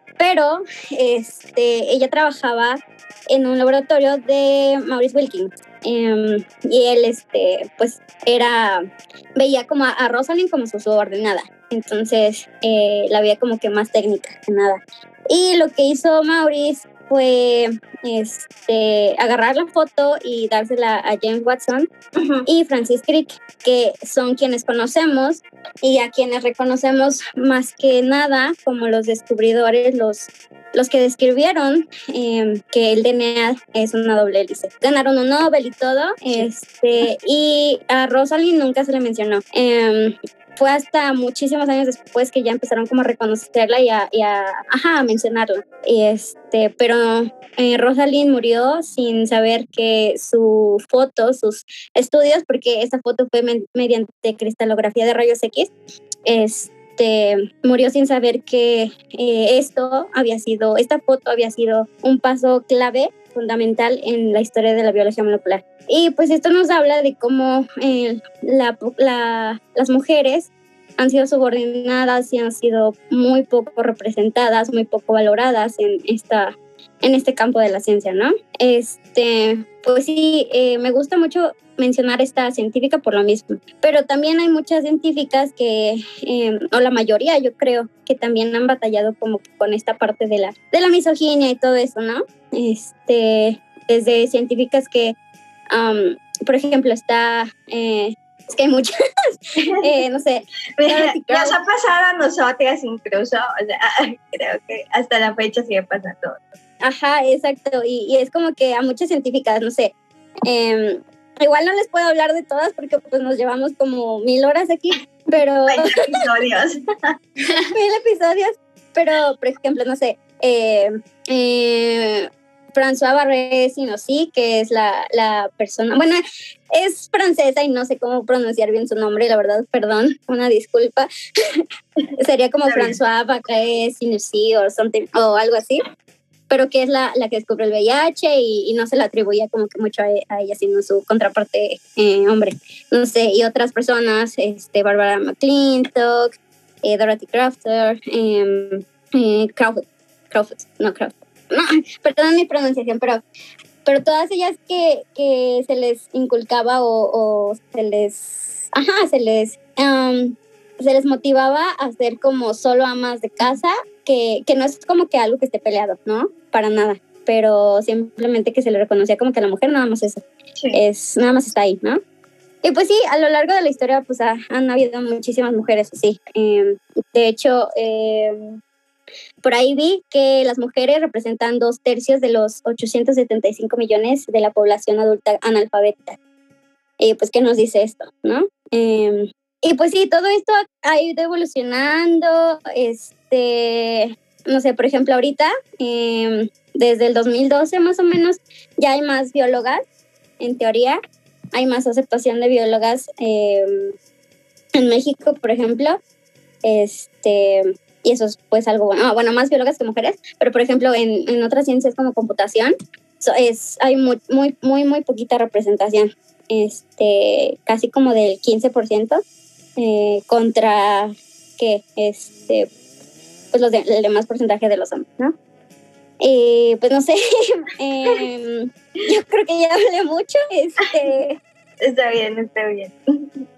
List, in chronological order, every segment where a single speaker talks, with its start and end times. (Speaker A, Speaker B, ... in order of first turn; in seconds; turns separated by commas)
Speaker A: 0.2-21.9, Speaker B: 22.2-22.4, Speaker A: 22.5-55.7, Speaker A: 56.3-95.2, Speaker A: 95.7-98.9, Speaker A: 99.8-101.6, Speaker B: 100.8-106.5, Speaker A: 106.8-109.9, Speaker A: 110.5-116.0, Speaker B: 115.7-117.1, Speaker A: 117.8-126.2, Speaker A: 126.7-131.6, Speaker A: 132.2-135.8, Speaker B: 132.7-132.9, Speaker A: 136.5-146.3, Speaker A: 146.8-153.2, Speaker A: 153.8-170.2, Speaker A: 170.7-172.0, Speaker A: 172.6-178.6, Speaker A: 179.4-186.2, Speaker A: 187.0-199.8, Speaker A: 200.4-201.0, Speaker A: 201.5-203.9, Speaker A: 204.8-206.0, Speaker A: 206.6-219.2, Speaker A: 219.8-222.7, Speaker A: 223.5-225.3, Speaker A: 226.2-231.4, Speaker B: 231.8-233.4